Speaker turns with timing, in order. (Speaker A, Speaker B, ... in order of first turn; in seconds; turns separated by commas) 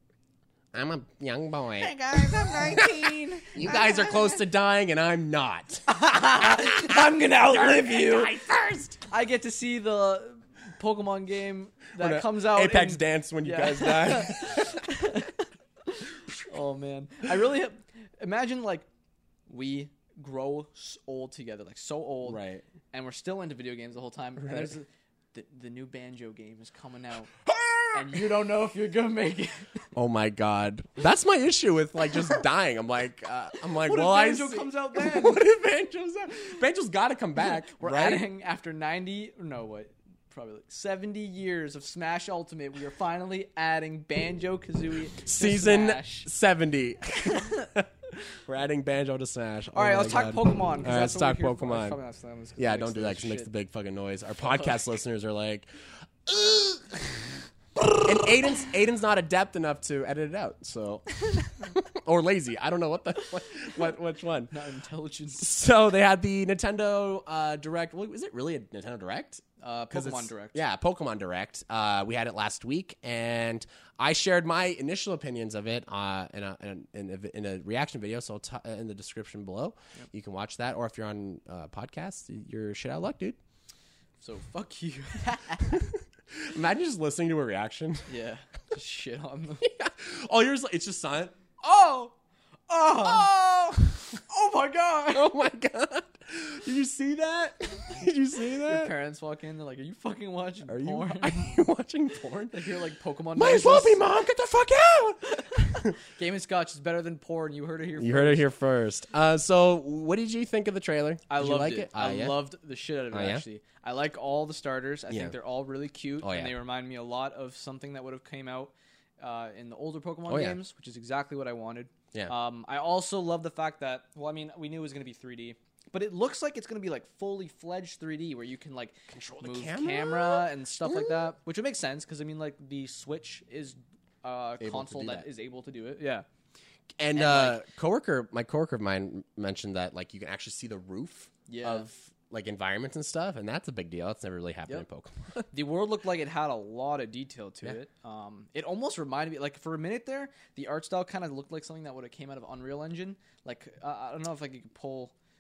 Speaker A: 0.7-5.9, Speaker B: 1.8-4.4, Speaker B: 5.9-8.4, Speaker A: 6.4-9.0, Speaker B: 9.1-18.9, Speaker A: 12.0-14.9, Speaker B: 19.5-27.4, Speaker A: 22.2-22.6, Speaker A: 24.4-24.8, Speaker A: 27.5-28.2, Speaker B: 27.9-29.9, Speaker A: 29.9-38.2, Speaker B: 33.8-35.4, Speaker B: 37.4-46.3, Speaker A: 45.2-52.0, Speaker B: 49.7-53.5, Speaker A: 52.6-55.7, Speaker B: 54.4-54.8, Speaker A: 56.3-57.4, Speaker A: 58.0-64.5, Speaker B: 64.5-65.6, Speaker A: 65.4-83.4, Speaker B: 69.6-70.6, Speaker B: 84.2-85.8, Speaker A: 85.6-88.1, Speaker B: 88.1-89.7, Speaker A: 89.6-92.1, Speaker B: 92.7-95.3, Speaker A: 92.9-93.9, Speaker A: 95.1-98.9, Speaker B: 98.7-101.5, Speaker A: 100.7-102.7, Speaker B: 102.5-104.1, Speaker A: 103.3-106.0, Speaker B: 105.2-108.5, Speaker A: 108.0-112.5, Speaker B: 111.3-136.3, Speaker A: 113.1-113.5, Speaker A: 115.1-115.4, Speaker A: 116.2-116.6, Speaker A: 120.3-120.6, Speaker A: 129.1-131.3, Speaker A: 134.6-135.3, Speaker A: 137.0-145.5, Speaker B: 137.1-137.6, Speaker B: 141.5-141.9, Speaker B: 145.5-155.1